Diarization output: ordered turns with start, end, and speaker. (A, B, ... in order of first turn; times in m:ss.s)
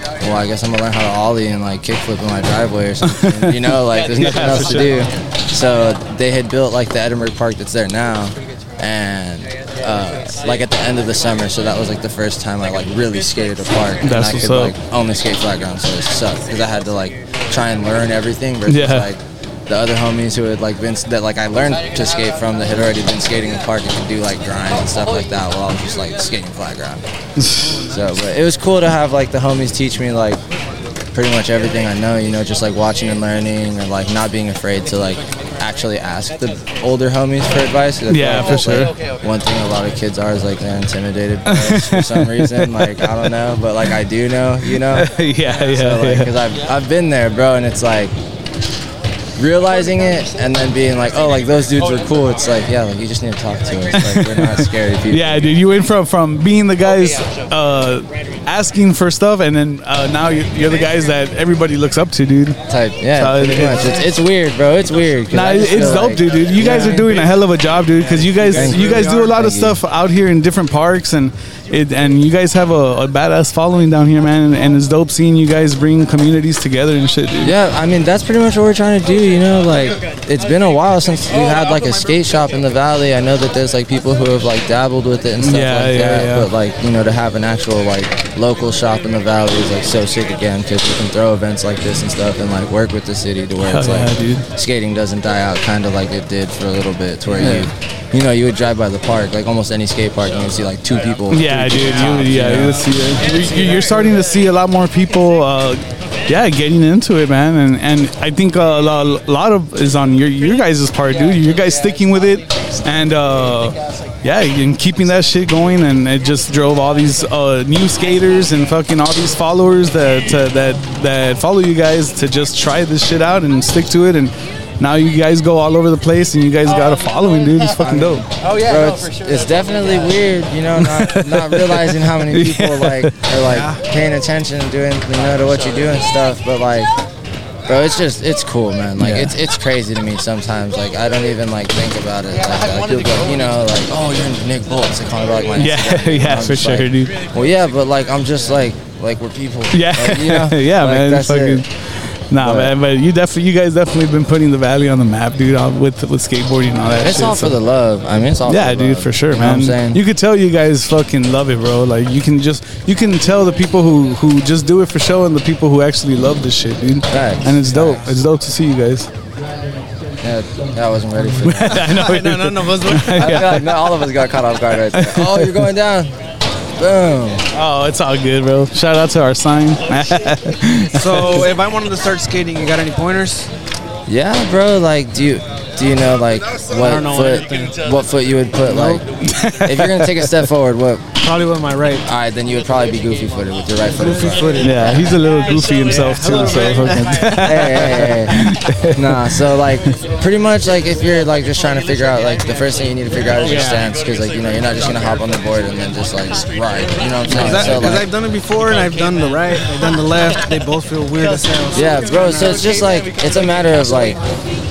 0:00.2-0:27.0 A
0:03.0-0:05.0 B
0:14.0-0:14.7 B
0:18.7-0:19.1 B
0:27.4-0:27.7 B
0:27.9-0:30.4 A
0:31.1-0:48.1 A
0:38.1-0:38.9 B
0:41.5-0:43.3 B
0:44.8-0:46.3 B
0:49.4-0:55.4 A
0:54.0-1:02.6 B
1:02.7-1:07.1 A
1:03.2-1:04.0 B
1:05.3-1:17.5 B
1:06.6-1:07.1 C
1:08.0-1:09.3 C
1:08.5-1:09.8 A
1:17.4-1:42.9 A
1:25.4-1:26.5 B
1:33.6-1:34.5 B
1:37.4-1:37.7 B
1:41.3-2:08.2 B
1:43.3-1:43.9 C
2:07.8-2:16.9 A
2:10.8-2:13.2 B
2:13.5-2:13.8 C
2:17.7-2:31.6 A
2:19.0-2:19.3 B
2:25.6-2:27.2 B
2:29.7-2:31.7 B
2:32.3-2:37.6 B
2:32.4-2:32.7 A
2:37.0-2:40.0 A
2:38.5-2:49.1 B
2:47.1-2:48.1 A
2:50.2-2:52.0 A
2:51.4-2:53.9 B
2:51.8-2:53.6 C
2:53.1-2:56.1 A
2:54.9-2:55.7 B
2:56.8-2:57.4 A
2:57.5-3:01.5 B
3:00.9-3:03.5 C
3:04.1-3:09.0 A
3:06.8-3:07.8 C
3:08.7-3:09.0 C
3:09.2-3:10.4 B
3:09.6-3:11.0 A
3:11.2-3:12.0 C
3:12.0-3:15.1 A
3:13.9-3:14.9 C
3:14.6-3:19.4 B
3:15.9-3:17.4 C
3:17.4-3:18.4 A
3:19.0-3:28.1 A
3:23.4-3:23.8 C
3:27.3-3:32.6 C
3:27.4-3:27.8 B
3:31.7-3:34.2 A